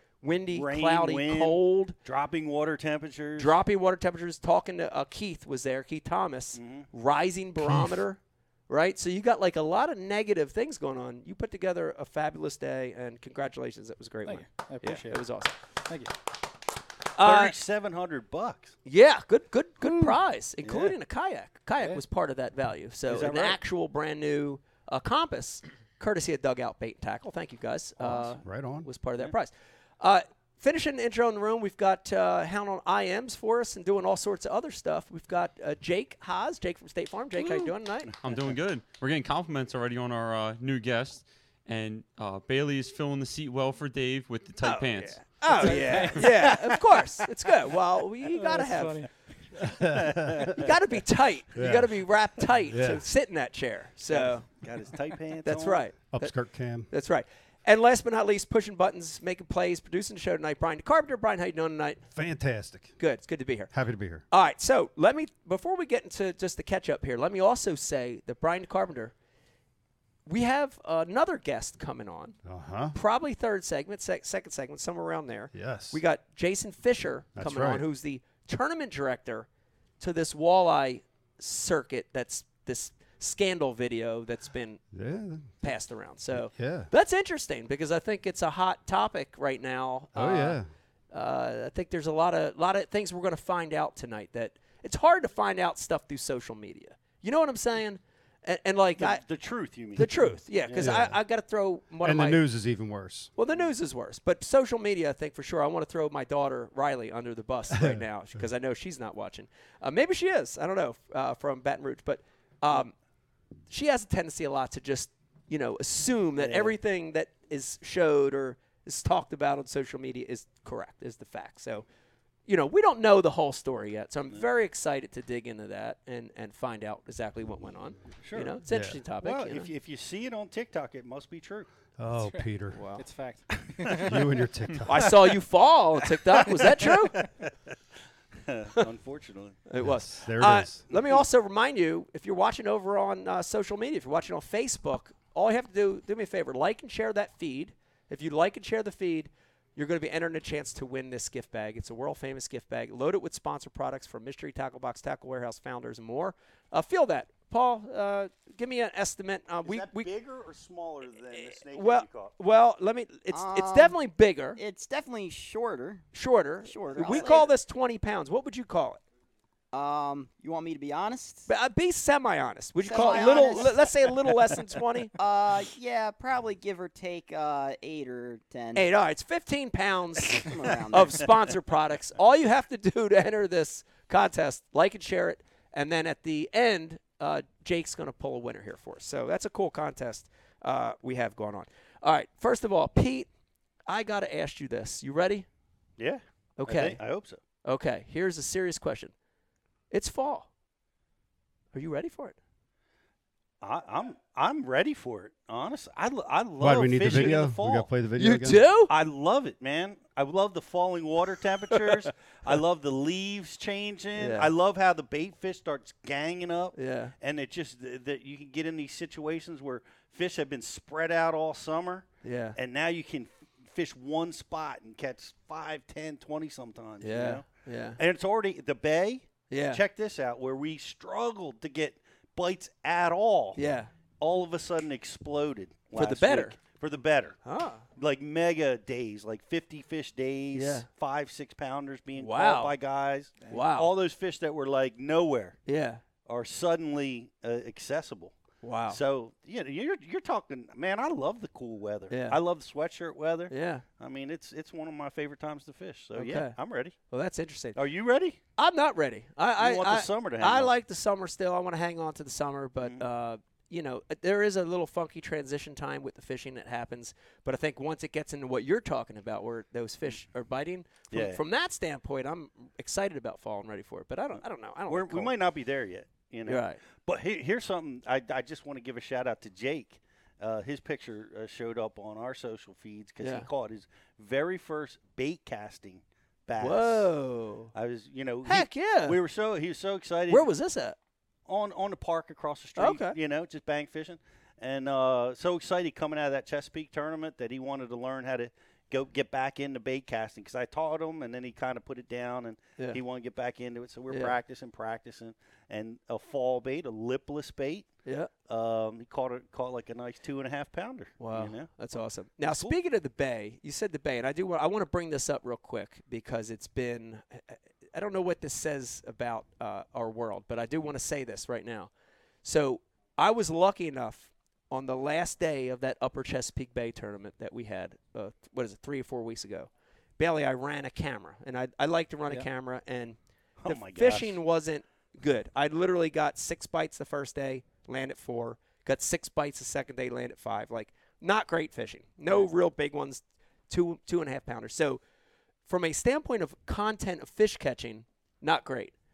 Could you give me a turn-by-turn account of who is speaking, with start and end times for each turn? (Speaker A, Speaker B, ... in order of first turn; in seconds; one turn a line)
Speaker A: 0.2-1.9
Speaker B: 0.5-3.6
Speaker A: 3.4-15.5
Speaker B: 6.5-6.9
Speaker C: 7.6-8.0
Speaker D: 14.2-15.3
Speaker D: 15.9-16.1
Speaker A: 17.1-17.5
Speaker B: 17.2-18.7
Speaker A: 18.8-38.1
Speaker B: 20.6-20.9
Speaker D: 21.8-22.0
Speaker B: 23.1-23.6
Speaker C: 28.0-28.9
Speaker E: 38.2-45.4
Speaker A: 44.6-49.0
Speaker D: 45.5-46.4
Speaker B: 45.7-46.8
Speaker D: 48.3-49.1
Speaker C: 49.6-50.5
Speaker B: 50.0-50.7
Speaker A: 50.5-54.5
Speaker C: 51.5-52.1
Speaker C: 52.6-53.0
Speaker B: 54.1-55.8
Speaker A: 55.4-56.3
Speaker C: 56.1-56.9
Speaker A: 56.9-62.0
Speaker C: 62.1-62.9
Speaker A: 63.0-63.7
Speaker C: 63.7-64.2
Speaker A: 64.3-69.1
Speaker A: 70.2-72.3
Speaker C: 72.4-72.9
Speaker A: 72.9-79.5
Speaker C: 75.5-76.0
Speaker C: 77.3-77.9
Speaker A: 80.0-84.8
Speaker C: 84.9-85.8
Speaker A: 85.6-90.6
Speaker C: 86.3-86.9
Speaker C: 90.1-90.7
Speaker A: 91.1-99.2
Speaker B: 99.0-101.1
Speaker A: 99.9-102.4
Speaker C: 100.0-101.2
Speaker C: 102.0-103.3
Speaker A: 103.3-112.9
Speaker C: 107.7-108.4
Speaker A: 113.7-121.8
Speaker B: 116.4-116.8
Speaker A: 122.5-129.7
Speaker B: 128.2-128.5
Speaker C: 128.7-129.0
Speaker B: 129.2-131.7
Speaker C: 132.0-132.8
Speaker D: 132.2-134.3
Speaker A: 132.7-133.0
Speaker B: 133.8-134.1
Speaker C: 133.9-135.1
Speaker A: 134.8-137.2
Speaker B: 136.3-137.5
Speaker B: 138.4-139.6
Speaker A: 139.7-160.1
Speaker C: 139.8-140.8
Speaker B: 140.9-141.2
Speaker B: 159.7-162.3
Speaker A: 161.3-164.6
Speaker F: 163.3-164.0
Speaker F: 164.6-166.0
Speaker A: 166.1-169.0
Speaker F: 166.6-167.5
Speaker B: 166.9-167.4
Speaker F: 169.7-171.5
Speaker A: 171.5-175.1
Speaker F: 172.8-173.8
Speaker B: 172.9-173.6
Speaker F: 175.2-178.9
Speaker A: 178.7-193.3
Speaker F: 180.3-181.3
Speaker A: 193.9-195.5
Speaker B: 196.0-197.4
Speaker A: 196.6-197.0
Speaker A: 197.6-199.1
Speaker A: 199.9-200.5
Speaker A: 201.7-202.4
Speaker B: 203.6-207.9
Speaker C: 206.6-208.7
Speaker A: 208.2-208.9
Speaker B: 208.9-227.5
Speaker A: 214.2-214.5
Speaker A: 216.7-217.1
Speaker A: 222.2-222.6
Speaker A: 227.0-228.0
Speaker B: 228.0-233.6
Speaker A: 229.5-229.8
Speaker A: 233.6-233.9
Speaker B: 234.2-237.4
Speaker A: 235.9-236.6
Speaker A: 237.4-237.8
Speaker B: 237.9-245.6
Speaker A: 240.5-240.9
Speaker A: 242.2-242.7
Speaker A: 243.5-243.9
Speaker A: 245.7-246.0
Speaker B: 246.2-248.4
Speaker A: 248.6-249.0
Speaker B: 248.9-256.9
Speaker A: 252.1-252.4
Speaker A: 253.5-253.8
Speaker A: 256.1-257.8
Speaker B: 257.7-258.4
Speaker A: 258.6-275.3
Speaker B: 259.6-260.7
Speaker B: 271.1-271.4
Speaker B: 274.4-287.1
Speaker A: 276.5-276.8
Speaker A: 283.2-283.5
Speaker A: 286.6-287.7
Speaker B: 287.7-290.5
Speaker A: 288.4-289.2
Speaker A: 290.3-290.9
Speaker B: 291.5-307.9
Speaker A: 292.8-293.1
Speaker A: 304.1-304.3
Speaker A: 308.0-308.3
Speaker B: 308.5-311.8
Speaker A: 311.2-321.9
Speaker B: 312.5-312.7
Speaker A: 322.4-345.0
Speaker B: 333.6-334.4
Speaker A: 345.7-348.9